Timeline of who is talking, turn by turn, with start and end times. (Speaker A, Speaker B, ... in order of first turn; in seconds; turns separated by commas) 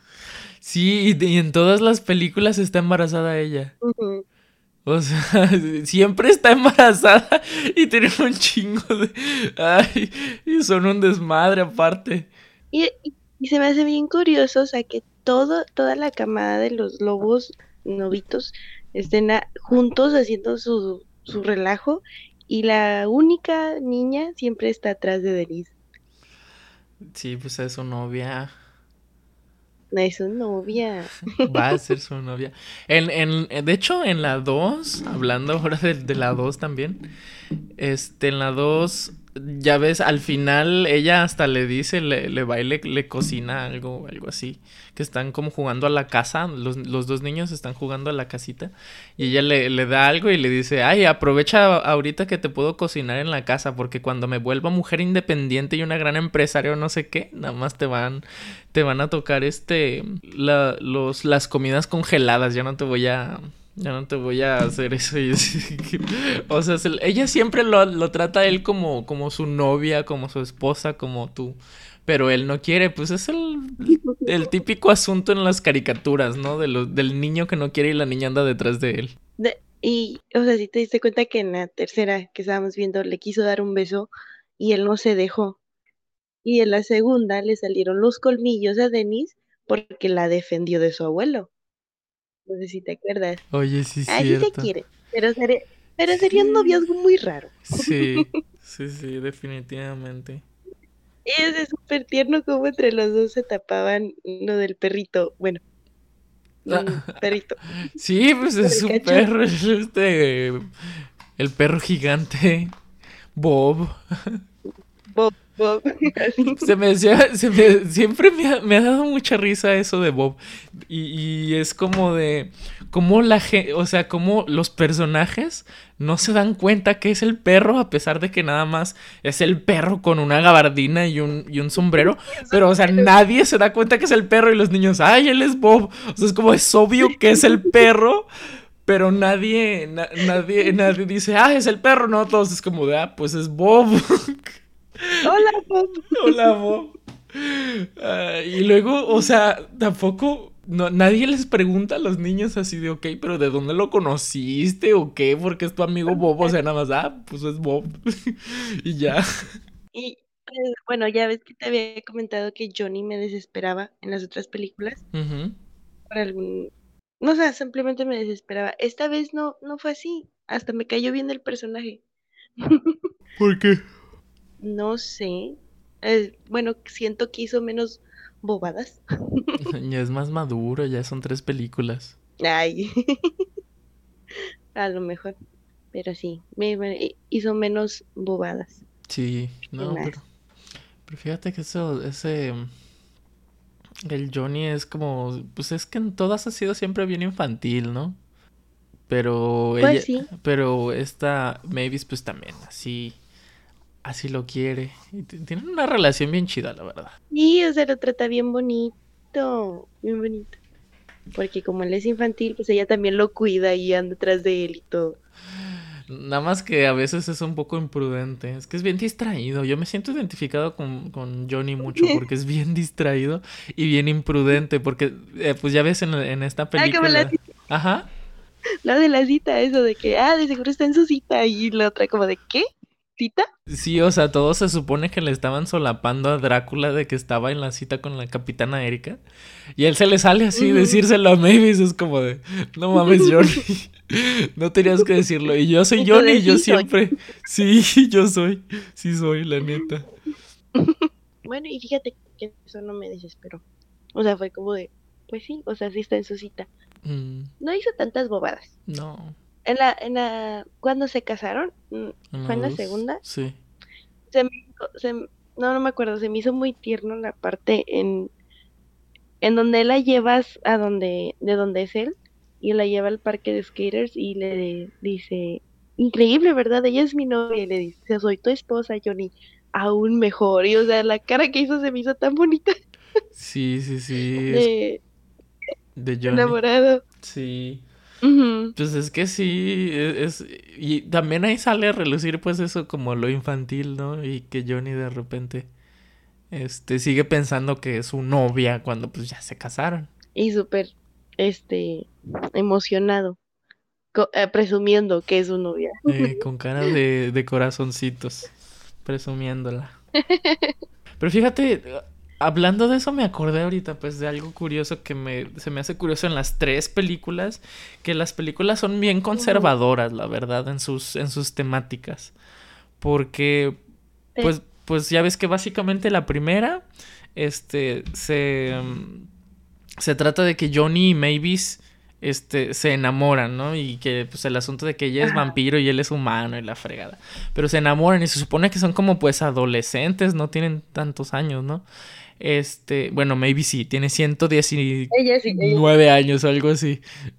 Speaker A: 0.6-3.7, Speaker B: 3.8-4.2, Speaker A: 4.9-12.3, Speaker B: 12.7-25.7, Speaker A: 27.1-28.5, Speaker B: 29.9-31.5, Speaker A: 31.4-37.0, Speaker A: 37.8-79.2, Speaker B: 79.4-85.6, Speaker B: 86.4-91.5, Speaker B: 92.5-93.4, Speaker A: 93.5-94.7, Speaker B: 94.1-98.3, Speaker A: 96.1-96.8, Speaker A: 97.7-100.4, Speaker B: 101.3-105.6, Speaker B: 106.7-107.7, Speaker A: 106.7-107.2, Speaker A: 107.8-110.7, Speaker B: 108.6-109.3, Speaker A: 111.4-112.7, Speaker A: 113.3-114.4, Speaker B: 115.1-116.7, Speaker A: 116.5-138.3, Speaker B: 131.9-133.1, Speaker B: 137.4-137.7, Speaker A: 138.8-145.5, Speaker B: 145.2-146.4, Speaker A: 146.1-159.2, Speaker B: 159.9-165.0, Speaker A: 165.1-165.6, Speaker B: 166.1-166.7, Speaker B: 167.2-172.0, Speaker B: 172.7-172.9, Speaker A: 173.4-173.8, Speaker B: 174.6-179.6, Speaker A: 179.6-182.1, Speaker B: 182.4-182.9, Speaker B: 184.8-185.3, Speaker B: 185.9-188.8, Speaker A: 189.1-190.2, Speaker B: 189.8-190.2, Speaker A: 191.1-192.7, Speaker A: 194.1-198.2, Speaker A: 199.1-203.2, Speaker B: 199.8-200.3, Speaker A: 204.0-207.1, Speaker B: 207.3-210.6, Speaker B: 211.3-215.2, Speaker A: 216.1-228.1, Speaker B: 226.8-227.3, Speaker B: 228.8-233.5, Speaker A: 233.7-239.2, Speaker A: 239.8-250.1, Speaker B: 240.6-241.0, Speaker B: 246.0-246.9, Speaker B: 250.8-253.6, Speaker B: 254.2-256.7, Speaker A: 257.0-257.5, Speaker B: 257.6-258.7, Speaker A: 258.9-259.4, Speaker B: 259.6-263.2, Speaker A: 262.3-263.6, Speaker B: 264.3-268.3, Speaker B: 269.4-282.7, Speaker A: 283.4-284.7, Speaker B: 284.5-285.0, Speaker A: 285.9-286.6, Speaker B: 286.3-287.0, Speaker A: 287.2-287.8, Speaker B: 288.2-288.8, Speaker A: 288.8-295.7, Speaker A: 296.5-300.1, Speaker B: 300.3-303.4, Speaker B: 304.1-306.4, Speaker A: 306.1-308.5, Speaker A: 309.1-309.9, Speaker B: 310.3-310.8, Speaker A: 311.2-322.3, Speaker B: 319.3-319.7, Speaker A: 323.0-323.8, Speaker A: 324.4-329.2, Speaker A: 330.0-341.8, Speaker B: 335.2-335.6, Speaker A: 342.4-347.0, Speaker B: 345.1-345.9